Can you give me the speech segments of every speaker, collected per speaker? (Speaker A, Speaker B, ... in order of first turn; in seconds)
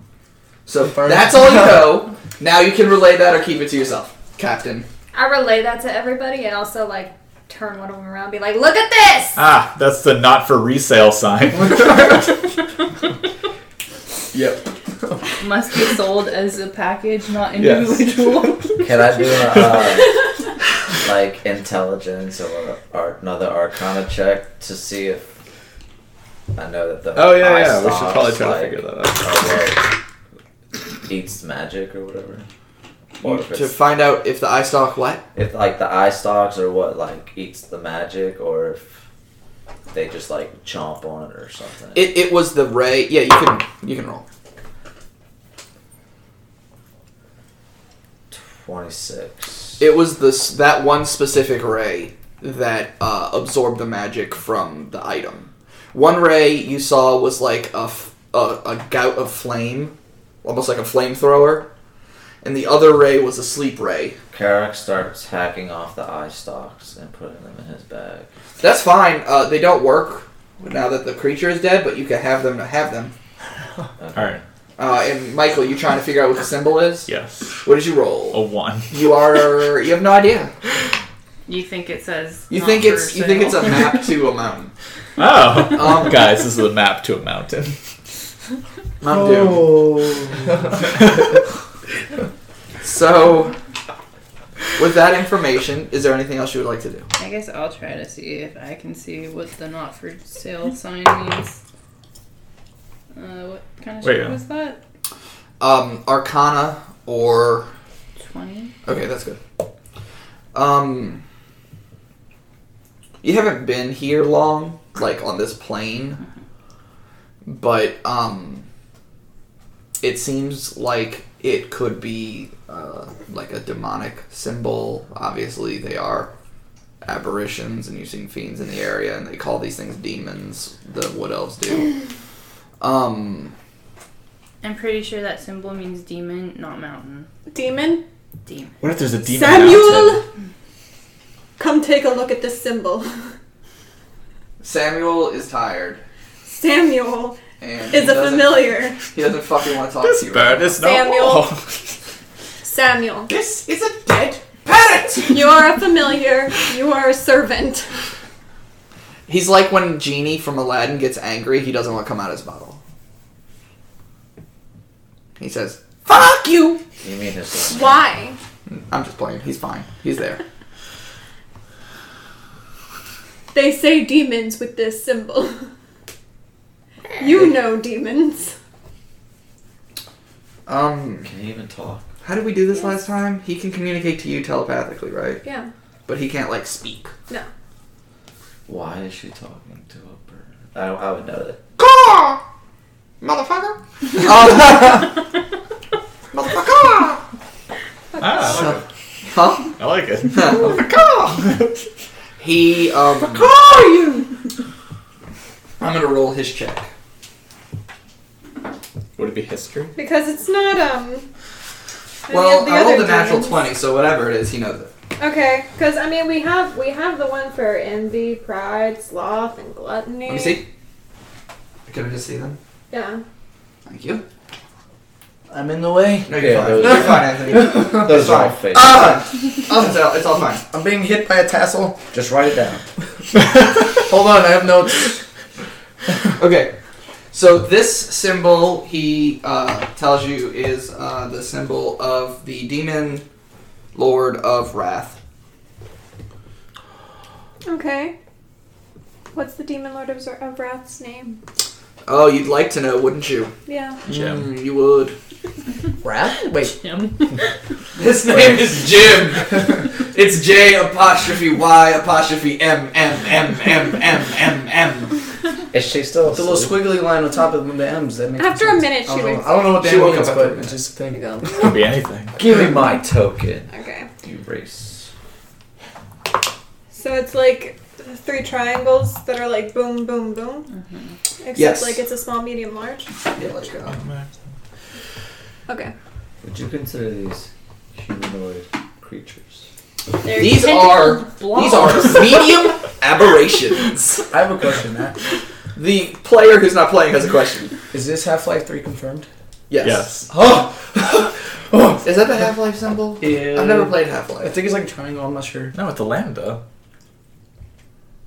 Speaker A: 0.7-4.9, 14.3-14.7, 33.2-35.2, 41.9-44.2, 49.8-61.7, 62.4-64.2, 68.6-73.1, 74.8-77.1, 77.6-80.5, 82.5-84.7, 85.7-86.2, 89.0-89.8, 92.8-93.5, 94.8-97.1, 105.6-107.7, 108.8-109.4, 110.5-111.2, 113.2-116.2, 117.4-118.7, 120.0-126.3, 127.0-131.9, 132.8-133.6, 144.6-146.0, 147.6-150.8, 153.3-155.6, 159.3-162.8, 165.4-166.8, 168.7-170.4, 180.7-181.3, 182.2-185.4, 186.1-187.1, 191.8-192.4, 193.2-195.2, 196.3-197.2, 198.4-201.5, 202.4-203.5, 205.8-206.9, 212.3-214.9, 220.2-220.6, 221.9-222.6, 223.8-224.2, 226.2-230.7, 236.4-236.7, 237.3-243.2, 243.9-245.2, 252.1-253.5, 254.1-255.1, 258.0-265.2, 269.7-270.8, 281.5-282.0, 283.4-284.0, 290.3-294.3, 295.8-297.8, 299.7-300.6, 302.0-304.6
Speaker B: 0.8-1.9, 89.1-90.8, 225.5-228.2, 228.7-229.1, 229.7-229.9, 230.6-232.0, 233.9-235.2, 256.0-257.0, 258.2-259.0, 266.3-271.8, 294.3-295.1, 297.9-299.3, 300.3-302.1, 303.2-305.7
Speaker C: 5.1-9.4
Speaker D: 9.3-12.3, 17.6-18.8, 27.1-29.5, 74.2-74.4, 77.1-77.6, 78.3-79.0, 85.2-87.8, 90.8-91.3, 104.0-104.5, 138.8-140.2, 150.0-151.9, 198.2-198.8, 199.7-200.8, 209.2-209.9, 254.1-254.5, 271.6-272.4, 283.9-284.3, 299.8-300.3, 305.7-306.6
Speaker E: 15.4-19.3, 81.5-84.1, 97.2-101.6, 103.1-104.8, 108.2-108.7, 134.6-137.3, 138.4-138.8, 256.3-257.5, 280.7-281.1, 290.2-292.4
Speaker F: 18.8-20.3, 21.0-25.3, 26.5-30.0, 31.0-32.5, 33.2-33.8, 35.3-39.0, 39.9-42.1, 48.3-49.8, 64.3-68.3, 74.0-74.4, 167.0-168.0, 181.2-182.1, 188.7-191.6, 226.3-229.1, 232.1-232.8, 265.7-266.9, 272.4-273.7, 274.2-275.1, 286.4-289.7
Speaker G: 137.5-138.0, 139.2-140.2, 141.6-143.1, 146.4-147.4, 147.9-149.0, 150.8-151.5, 152.6-153.3, 155.2-157.9, 167.7-168.4, 173.5-175.7, 177.2-178.5, 185.4-185.7, 198.3-198.6, 209.9-211.3, 212.3-213.7, 215.2-220.6, 222.9-223.2, 247.7-248.1, 249.3-251.4, 253.7-254.0, 268.4-269.8, 271.1-271.8, 273.7-274.1, 276.9-280.7, 281.4-283.1, 285.7-285.9